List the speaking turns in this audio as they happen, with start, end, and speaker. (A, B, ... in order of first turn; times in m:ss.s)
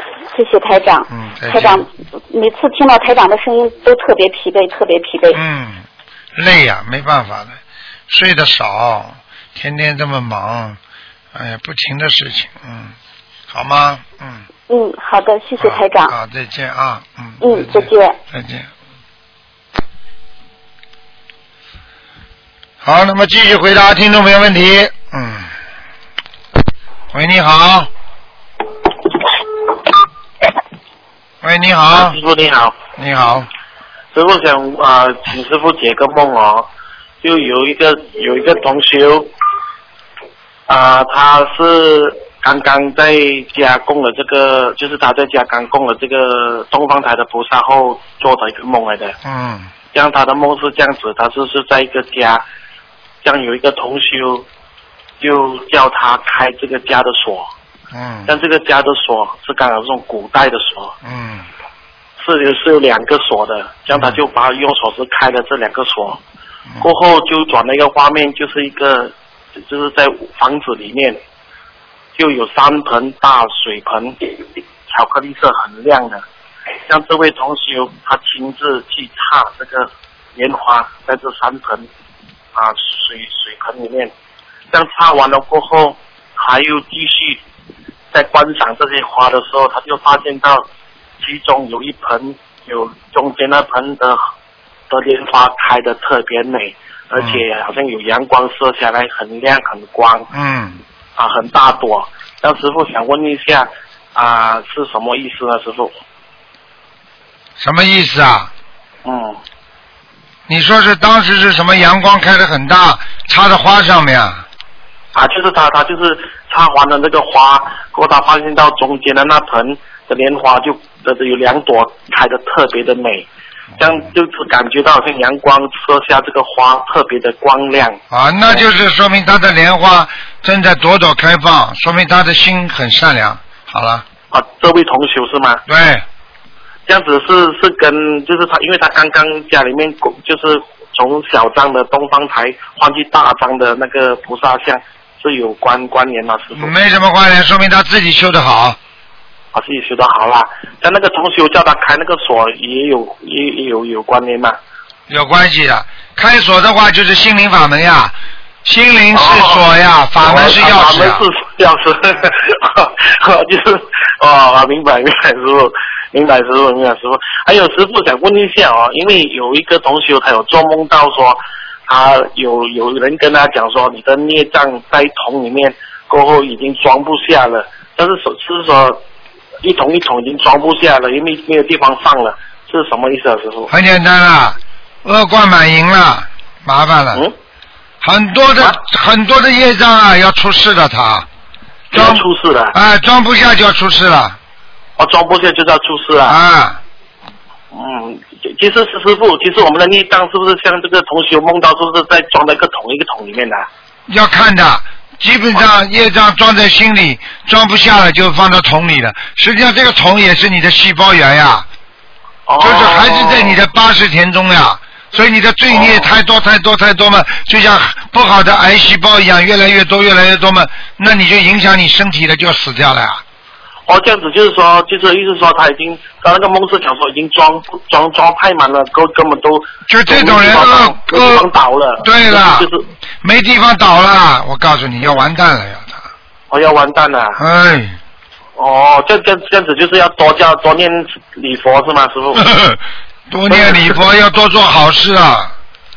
0:00.3-0:05.4 A
0:01.1-0:01.9 B
0:05.3-0:05.8 B
0:06.4-0:10.8 B
0:11.3-0:12.9 B
0:13.5-0:14.4 B
0:14.7-0:16.1 A
0:15.6-0:18.7 B
0:17.4-0:18.2 A
0:22.8-0:25.5 B
0:27.1-0:27.9 B
0:31.4-0:32.2 B
0:31.9-0:32.7 C
0:33.0-0:33.5 B
0:34.1-0:36.7 C
0:37.2-0:39.3 C
0:40.7-0:49.2 C
0:49.2-0:49.7 B
0:49.9-0:52.4 C
0:53.2-0:54.4 C
0:55.2-0:57.5 C
0:57.9-0:58.4 B
0:58.3-1:00.9 C
1:01.0-1:01.4 B
1:02.2-1:06.2 C
1:03.9-1:04.2 B
1:06.8-1:11.2 C
1:12.2-1:14.3 C
1:14.9-1:16.2 C
1:16.9-1:21.9 C
1:22.5-1:24.1 C
1:24.7-1:27.4 C
1:28.1-1:30.7 C
1:31.2-1:34.2 C
1:34.9-1:40.3 C
1:37.2-1:37.4 B
1:40.3-1:40.8 B
1:41.2-1:45.9 C
1:47.6-1:48.5 B
1:49.0-1:49.4 C
1:50.5-1:54.4 B
1:55.1-2:03.3 C
2:03.8-2:08.0 C
2:08.1-2:14.0 B
2:14.3-2:15.6 C
2:15.7-2:16.0 B
2:16.9-2:26.7 C
2:26.6-2:28.8 B
2:29.5-2:34.6 C
2:35.1-2:41.3 B
2:39.1-2:39.6 C
2:40.2-2:59.0 C
2:59.6-3:03.7 C
3:03.7-3:07.2 B
3:08.0-3:11.3 B
3:11.9-3:12.7 C
3:11.9-3:14.4 B
3:15.0-3:16.4 C
3:16.2-3:16.8 B
3:17.7-3:23.7 C
3:24.1-3:31.6 B
3:32.5-3:33.6 C
3:32.6-3:43.2 B
3:35.7-3:36.1 C
3:43.9-3:52.9 C
3:49.9-3:51.5 B
3:52.0-3:52.7 B
3:53.2-3:56.1 B
3:56.5-3:57.4 C
3:57.4-3:58.0 B
3:58.6-4:02.5 C
4:02.4-4:02.8 B
4:03.3-4:05.6 B
4:03.5-4:04.0 C